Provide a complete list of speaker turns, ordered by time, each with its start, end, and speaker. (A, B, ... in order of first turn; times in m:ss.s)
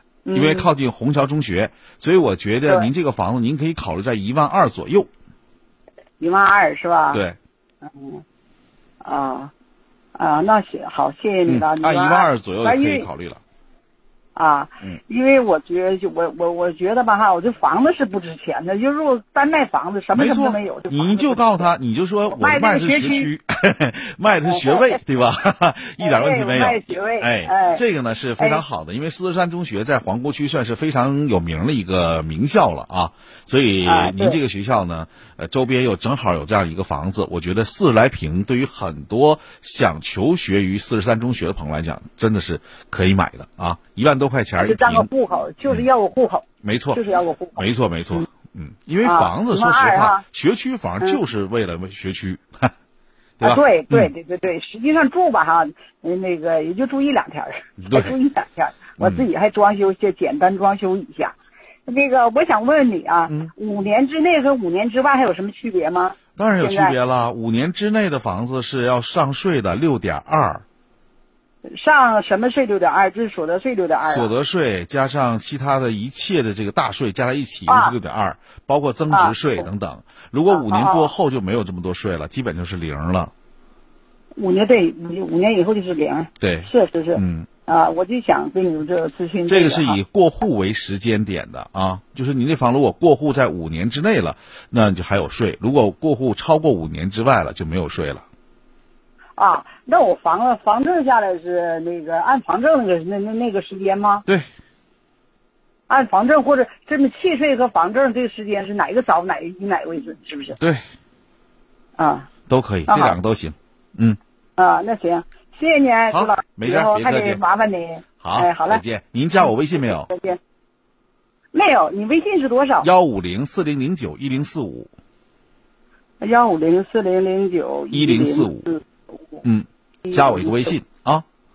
0:00.2-0:00.7 A
0:00.3-0:05.1 B
0:06.2-0:07.2 A
0:07.1-0:07.4 B
0:07.8-0:08.2 A
0:09.0-0:09.5 A
0:10.2-0:13.0 A
0:11.5-0:13.4 B
0:14.4-0:21.7 A
0:20.1-0:45.1 B
0:22.3-0:23.3 A
0:24.5-0:25.0 A
0:26.0-0:27.8 A
0:33.8-0:34.4 A
0:44.6-0:48.2 A
0:46.6-0:47.0 B
0:47.6-0:52.7 B
0:49.0-0:50.2 A
0:53.4-0:54.1 B
0:53.4-1:01.3 A
0:57.8-0:58.1 B
0:59.0-0:59.2 B
1:01.9-1:06.9 A
1:06.4-1:10.6 B
1:11.7-1:14.3 A
1:14.0-1:23.3 B
1:17.7-1:17.9 A
1:19.1-1:19.6 A
1:20.5-1:21.1 A
1:24.4-1:30.0 A
1:26.4-1:27.5 B
1:29.5-1:38.2 B
1:39.4-1:44.2 A
1:45.9-1:50.6 A
1:50.6-1:50.8 B
1:52.0-1:52.3 A
1:52.5-1:54.2 B
1:52.9-1:53.2 A
1:54.6-1:58.8 A
1:56.1-1:57.4 B
1:58.2-2:00.1 B
1:59.8-2:00.4 A
2:01.5-2:02.9 A
2:02.8-2:04.9 B
2:06.2-2:08.8 A
2:07.9-2:08.6 B
2:09.4-2:11.2 B
2:10.0-2:10.7 A